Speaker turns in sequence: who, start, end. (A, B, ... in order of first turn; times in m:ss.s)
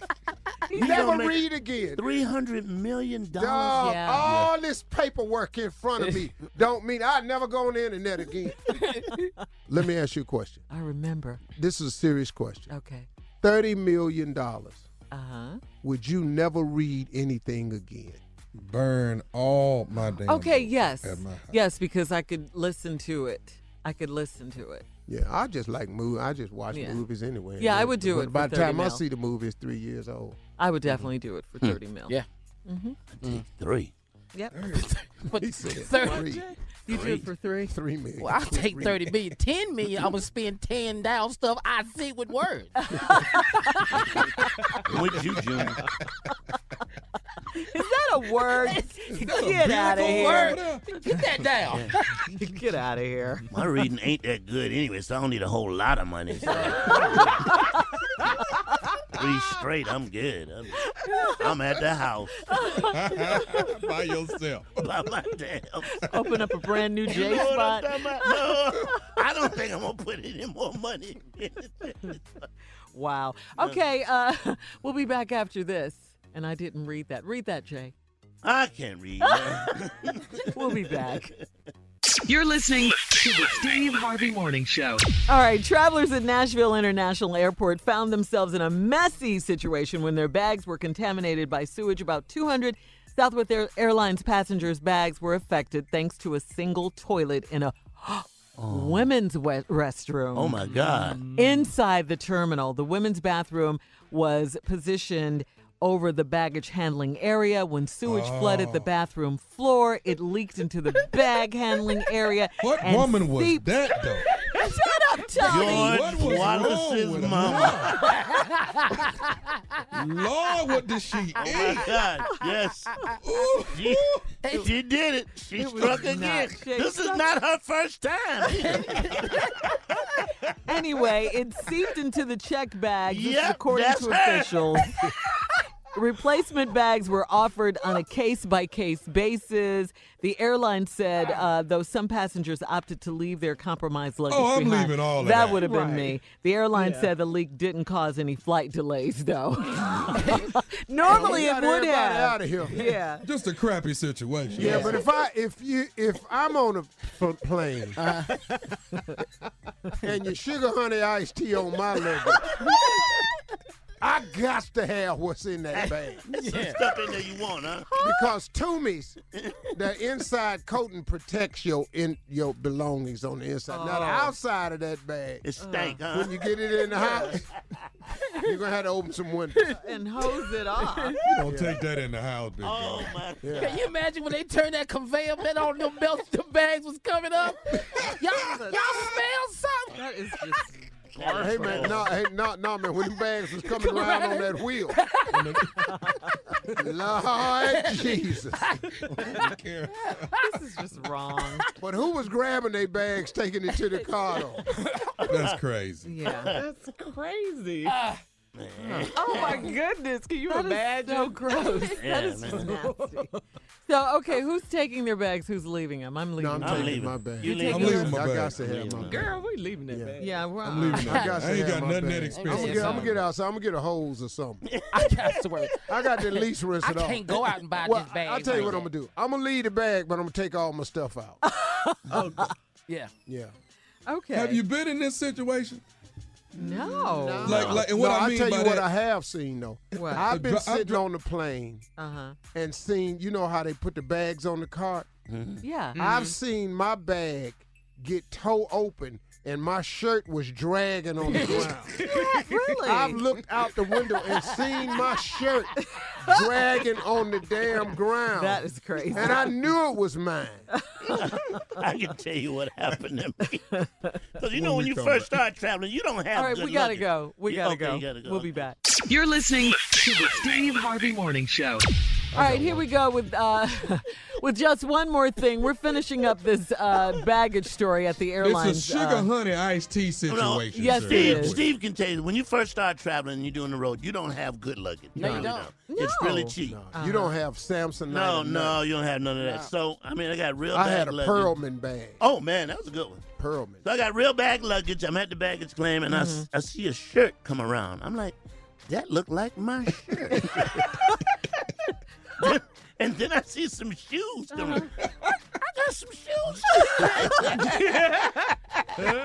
0:00.7-0:02.0 A
0:00.7-0:04.1 B
0:03.3-0:08.8 A
0:03.8-0:04.2 C
0:04.2-0:04.5 D
0:09.7-0:10.6 A
0:10.7-0:11.4 C
0:11.6-0:12.7 A
0:12.7-0:13.1 C
0:13.4-0:14.9 A
0:15.1-0:15.6 C
0:15.8-0:18.2 A
0:18.5-0:21.6 D
0:20.3-0:24.8 C
0:25.1-0:30.4 A
0:26.7-0:27.0 C
0:27.6-0:29.0 C
0:30.6-0:32.1 C
0:32.7-0:33.0 C
0:33.1-0:33.9 B
0:34.3-0:34.6 C
0:34.5-0:34.9 D
0:34.8-0:36.3 E
0:35.3-0:36.4 A
0:36.9-0:37.7 C
0:36.9-0:37.2 B
0:37.7-0:39.1 A
0:38.2-0:42.7 E
0:42.8-0:43.7 C
0:43.8-0:44.1 E
0:44.8-0:45.8 B
0:47.5-0:50.6 C
0:48.6-0:49.0 E
0:49.1-0:50.9 D
0:50.0-0:52.0 E
0:52.2-0:53.5 C
0:53.5-0:57.4 B
0:56.5-0:57.0 E
0:56.9-0:57.5 C
0:59.1-1:02.5 B
1:00.9-1:01.4 C
1:02.5-1:03.7 C
1:02.8-1:04.9 D
1:04.8-1:06.1 B
1:06.0-1:08.3 C
1:07.0-1:12.2 B
1:12.9-1:17.9 C
1:18.4-1:20.5 B
1:19.2-1:19.6 C
1:20.5-1:21.3 C
1:22.3-1:25.0 F
1:25.3-1:40.7 C
1:38.6-1:39.1 B
1:40.3-1:41.2 B
1:40.8-1:41.7 G
1:41.2-1:53.6 C
1:48.0-1:48.8 D
1:52.6-1:54.3 D
1:54.4-1:54.7 E
1:54.4-1:56.5 C
1:55.4-1:55.7 E
1:55.5-1:58.1 B
1:55.6-1:58.1 D
1:58.0-1:59.8 E
1:59.9-2:02.1 D
2:01.4-2:02.9 B
2:03.2-2:04.2 D
2:03.7-2:09.4 B
2:04.4-2:04.7 E
2:05.5-2:07.2 C
2:08.6-2:09.4 E
2:10.6-2:15.2 C
2:13.1-2:14.8 B
2:15.9-2:33.2 C
2:21.2-2:21.5 G
2:24.3-2:25.6 D
2:25.6-2:26.2 G
2:26.7-2:27.1 G
2:30.2-2:30.5 E
2:31.0-2:32.8 A
2:33.2-2:35.0 D
2:34.5-2:38.1 A
2:34.6-2:34.8 E
2:38.0-2:38.4 E
2:40.0-2:42.6 A
2:44.0-2:46.2 A
2:45.7-2:47.9 B
2:46.3-2:46.8 E
2:47.9-2:49.2 A
2:49.3-2:49.6 B
2:49.7-2:55.4 A
2:53.7-2:54.3 C
2:55.4-2:56.4 B
2:55.6-2:56.0 C
2:56.1-2:57.4 A
2:56.9-2:57.4 C
2:58.4-2:59.7 A
2:59.7-3:01.2 C
3:01.2-3:03.2 D
3:01.4-3:01.8 A
3:02.6-3:03.7 B
3:03.4-3:03.8 A
3:03.5-3:10.0 E
3:08.4-3:08.9 C
3:09.9-3:10.8 C
3:11.1-3:12.0 E
3:11.1-3:12.1 B
3:11.2-3:15.0 A
3:13.7-3:15.4 E
3:15.3-3:15.9 D
3:15.9-3:16.2 C
3:16.7-3:18.8 A
3:17.5-3:19.4 E
3:19.2-3:20.3 D
3:20.0-3:20.4 E
3:20.4-3:21.6 C
3:21.8-3:24.7 A
3:25.2-3:25.6 B
3:25.2-3:26.1 D
3:26.0-3:26.6 C
3:26.5-3:28.0 G
3:27.8-3:28.2 E
3:28.5-3:29.7 B
3:29.1-3:32.0 G
3:30.5-3:33.3 C
3:31.9-3:32.7 B
3:32.5-3:33.4 G
3:33.9-3:38.1 C
3:36.4-3:39.3 A
3:36.6-3:39.3 B
3:37.7-3:38.6 D
3:39.0-3:40.5 G
3:39.9-3:40.2 A
3:40.2-3:41.1 C
3:40.6-3:43.2 D
3:40.9-3:44.6 A
3:42.3-3:43.1 E
3:42.6-3:42.8 G
3:44.6-3:45.4 B
3:44.9-3:48.9 E
3:45.9-3:51.4 A
3:51.4-3:52.2 C
3:52.1-3:52.4 D
3:53.2-3:53.5 A
3:54.1-3:54.6 C
3:54.3-3:55.8 D
3:56.5-4:01.8 A
3:56.6-3:57.6 C
3:57.4-3:58.9 D
3:57.4-3:57.8 B
3:59.9-4:00.2 C
4:00.1-4:01.0 D
4:02.0-4:02.4 C
4:02.5-4:05.1 A
4:05.3-4:05.6 B
4:05.6-4:06.0 C
4:06.0-4:06.3 G
4:06.0-4:12.0 A
4:11.4-4:12.8 G
4:12.2-4:13.2 C
4:12.8-4:20.7 A
4:16.0-4:16.4 C
4:18.4-4:19.5 C
4:21.0-4:23.7 B
4:23.8-4:24.1 C
4:24.4-4:28.5 B
4:24.5-4:25.4 D
4:26.3-4:28.8 C
4:29.1-4:31.8 F
4:32.3-4:32.8 D
4:32.3-4:39.3 C
4:38.4-4:41.6 D
4:40.3-4:46.8 B
4:40.7-4:41.6 C
4:45.2-4:45.7 E
4:45.2-4:47.3 C
4:46.6-4:48.8 A
4:48.1-4:51.5 B
4:49.4-4:49.7 E
4:50.7-4:52.2 A
4:52.2-4:53.2 B
4:53.4-4:53.8 A
4:53.8-4:58.4 B
4:56.1-4:56.5 C
4:58.9-5:00.8 B
5:02.4-5:04.9 B
5:04.5-5:04.9 C
5:05.7-5:07.9 B
5:07.7-5:08.1 G